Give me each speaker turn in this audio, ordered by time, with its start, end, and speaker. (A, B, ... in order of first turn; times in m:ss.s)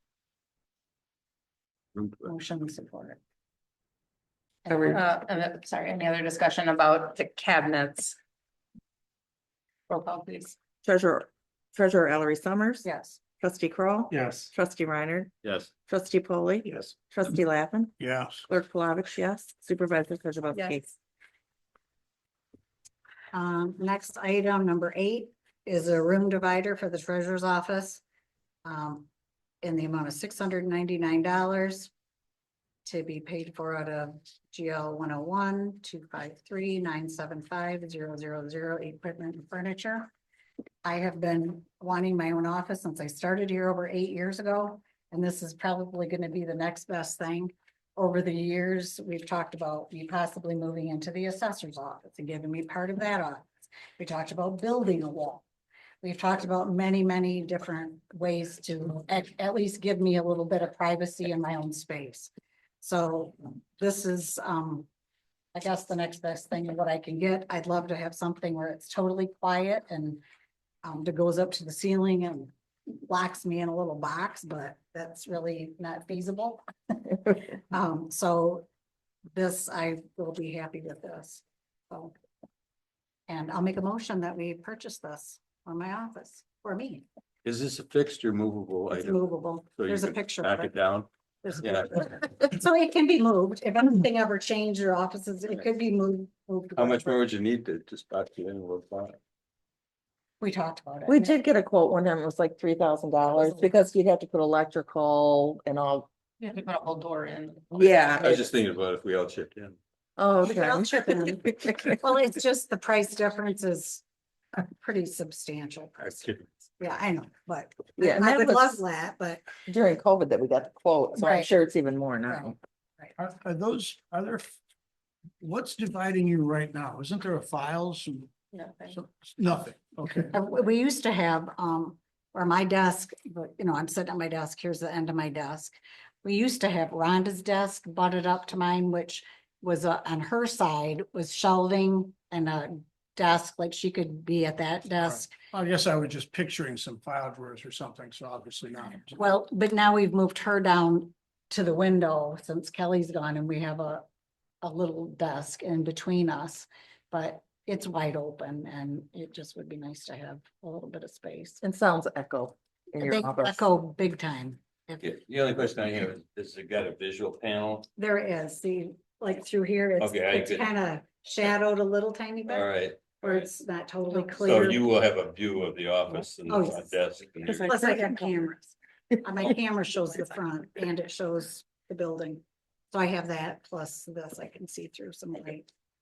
0:02.0-0:02.2 A
0:02.2-0:03.2 B
0:04.6-0:05.0 B
0:04.7-0:08.2 C
0:04.7-0:05.0 D
0:09.9-0:10.6 C
0:10.8-0:12.9 D
0:12.8-0:13.2 B
0:13.4-0:15.3 D
0:14.1-0:14.5 E
0:15.4-0:15.7 A
0:15.8-0:17.9 D
0:16.6-0:16.9 E
0:18.0-0:18.4 E
0:18.4-0:20.9 D
0:20.5-0:20.8 C
0:23.3-0:28.0 B
0:28.6-0:29.1 B
0:29.6-0:31.9 B
0:32.8-0:40.1 B
0:40.8-0:55.4 B
0:56.0-1:04.9 B
1:05.5-1:10.2 B
1:10.8-1:16.6 B
1:17.7-1:18.6 B
1:19.3-1:22.1 B
1:23.3-1:27.0 B
1:27.4-1:29.2 A
1:28.9-1:30.7 B
1:29.8-1:31.1 A
1:31.4-1:37.2 B
1:31.6-1:32.1 A
1:36.8-1:39.2 A
1:40.4-1:41.3 B
1:41.1-1:46.1 D
1:43.4-1:43.7 B
1:46.4-1:47.9 C
1:47.7-1:48.5 D
1:48.2-1:49.8 A
1:50.2-1:52.0 D
1:50.4-1:51.5 B
1:52.0-1:54.0 B
1:54.5-1:59.5 B
1:56.0-1:56.4 A
1:58.0-1:58.8 D
1:59.6-2:02.6 D
2:01.2-2:01.5 B
2:02.3-2:03.1 B
2:03.2-2:04.5 E
2:05.4-2:10.3 E
2:10.3-2:25.3 B
2:25.1-2:29.2 E
2:29.1-2:34.0 B
2:34.6-2:41.6 B
2:41.6-2:43.6 D
2:43.0-2:45.1 B
2:45.0-2:47.9 A
2:48.0-2:54.8 B
2:50.0-2:50.7 A
2:52.5-2:53.2 A
2:54.4-2:57.7 A
2:56.5-2:56.9 B
2:57.4-2:58.2 D
2:57.5-3:05.7 B